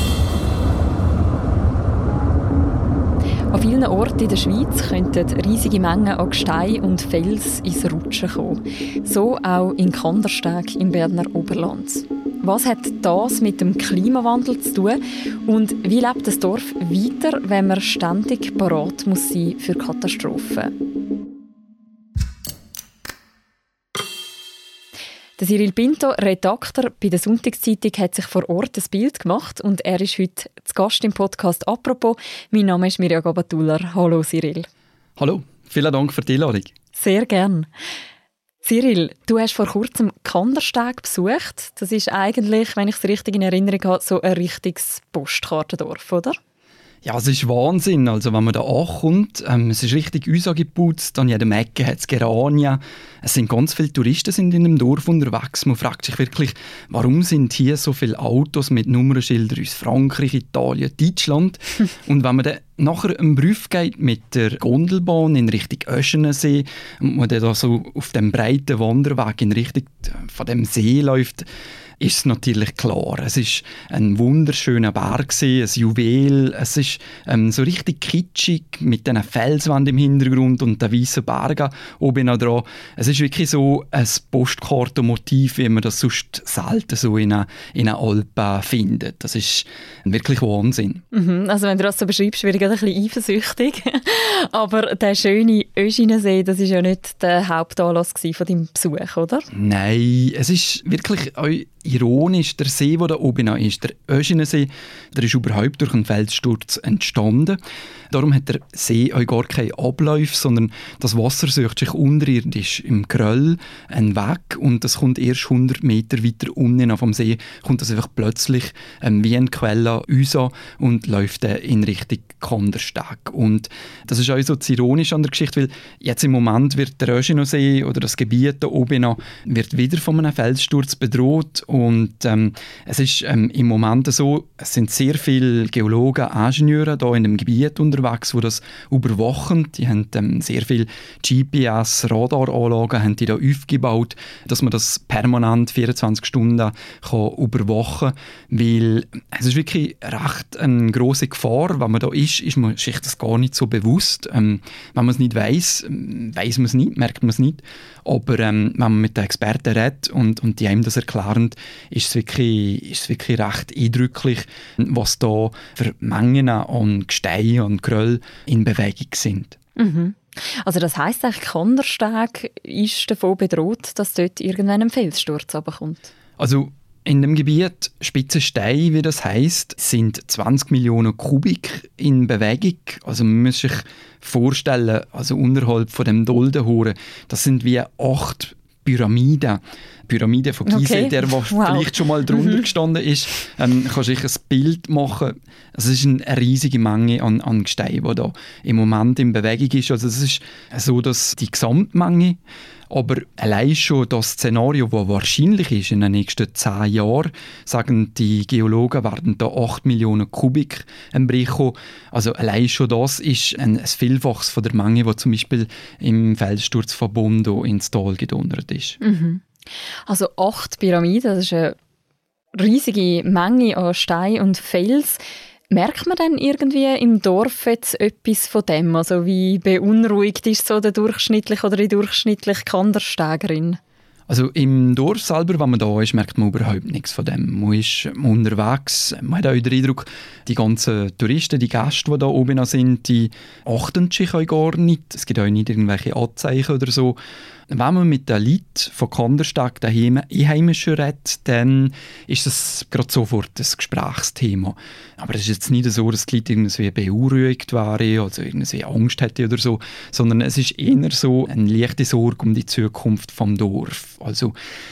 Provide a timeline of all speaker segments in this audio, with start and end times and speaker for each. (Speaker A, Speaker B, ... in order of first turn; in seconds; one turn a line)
Speaker A: 3.5-20.7
Speaker A: 25.4-34.7
Speaker B: 35.2-36.7
Speaker A: 37.0-37.7
Speaker A: 38.6-46.4
Speaker B: 47.0-71.5
Speaker B: 72.0-91.0
Speaker A: 91.1-99.5
Speaker B: 99.5-107.6
Speaker B: 108.1-169.6
Speaker A: 169.8-176.1
Speaker B: 176.4-202.4
Speaker A: 190.7-192.6
Speaker B: 202.9-219.0
Speaker A: 219.0-219.4
Speaker A: 220.1-221.8
Speaker A: 222.6-233.8
Speaker B: 234.3-247.2
Speaker B: 247.7-264.6